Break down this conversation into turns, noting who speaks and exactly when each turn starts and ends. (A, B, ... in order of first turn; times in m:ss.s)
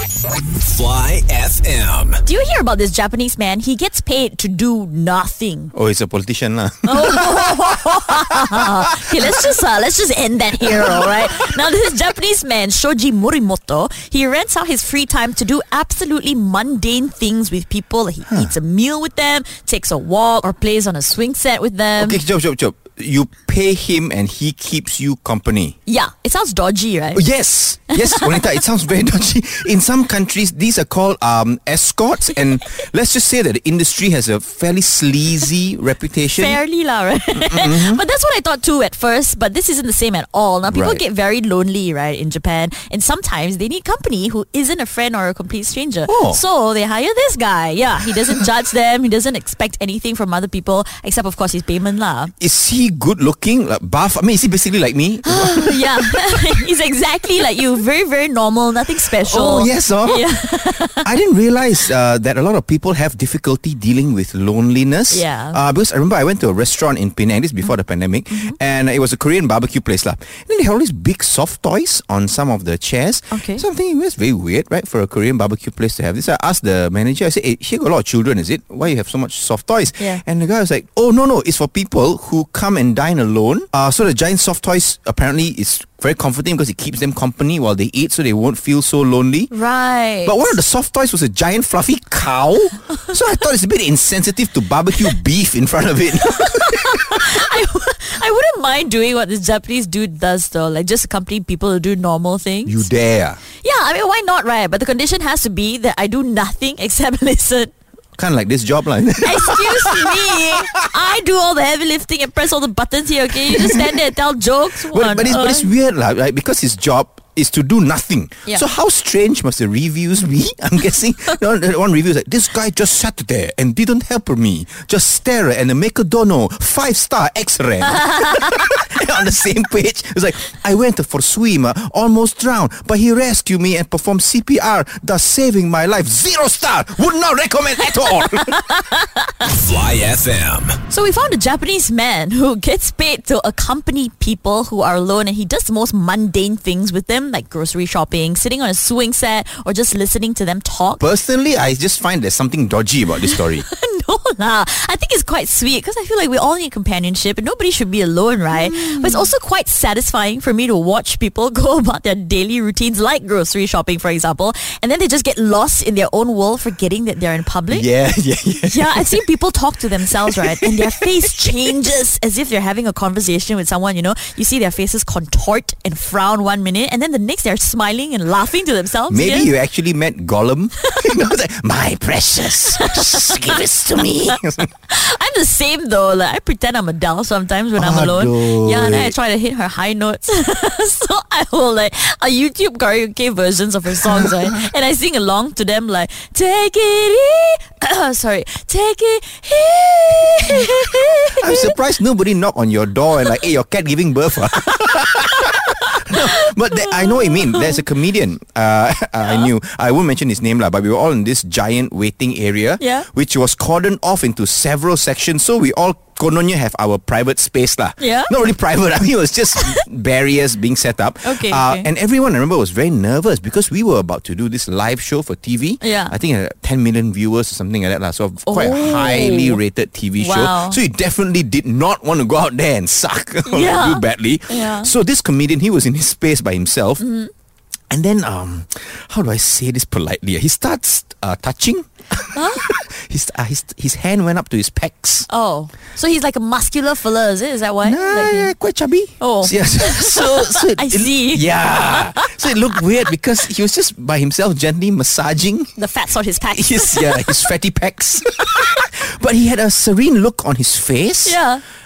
0:00.5-0:02.2 A
0:02.2-0:05.7 B
0:05.7-0:09.3 C
0:06.8-0:22.2 B
0:10.6-0:11.2 C
0:18.3-0:18.5 C
0:22.0-0:25.8 C
0:25.8-0:27.2 B
0:27.1-0:36.6 C
0:27.9-0:28.4 B
0:36.3-0:52.3 B
0:37.4-0:38.0 C
0:40.6-0:41.0 C
0:46.0-0:46.4 C
0:52.4-0:56.6 C
0:55.2-1:01.0 B
0:59.0-1:29.5 C
1:05.1-1:05.6 B
1:08.3-1:08.6 B
1:13.3-1:13.6 B
1:29.5-1:30.5 B
1:30.2-1:37.2 C
1:36.3-1:42.8 B
1:42.6-1:43.4 C
1:43.6-1:47.7 B
1:48.2-1:50.4 C
1:49.2-1:55.7 B
1:53.5-1:53.9 C
1:54.9-2:18.6 C
2:07.9-2:08.7 B
2:18.2-2:19.5 B
2:19.5-2:20.8 A
2:20.9-2:31.0 B
2:31.0-2:33.6 C
2:33.3-2:47.9 B
2:38.5-2:39.3 C
2:47.7-2:49.2 C
2:48.6-2:59.5 B
2:50.2-2:51.7 C
2:59.1-3:04.7 C
3:02.8-3:03.5 B
3:04.9-3:21.7 B
3:07.8-3:09.1 C
3:14.0-3:14.6 C
3:21.4-3:57.0 C
3:25.7-3:27.8 B
3:32.8-3:33.1 B
3:38.0-3:38.3 B
3:41.2-3:41.9 B
3:45.8-3:46.1 B
3:48.4-3:49.6 B
3:50.2-3:50.8 B
3:53.5-3:54.9 B
3:57.0-3:57.3 B
3:57.9-4:05.3 C
4:02.3-4:02.7 B
4:05.3-4:08.5 B
4:07.8-4:15.7 C
4:09.2-4:12.8 B
4:15.8-4:17.3 B
4:16.5-4:21.4 C
4:18.5-4:18.8 B
4:21.2-4:21.6 B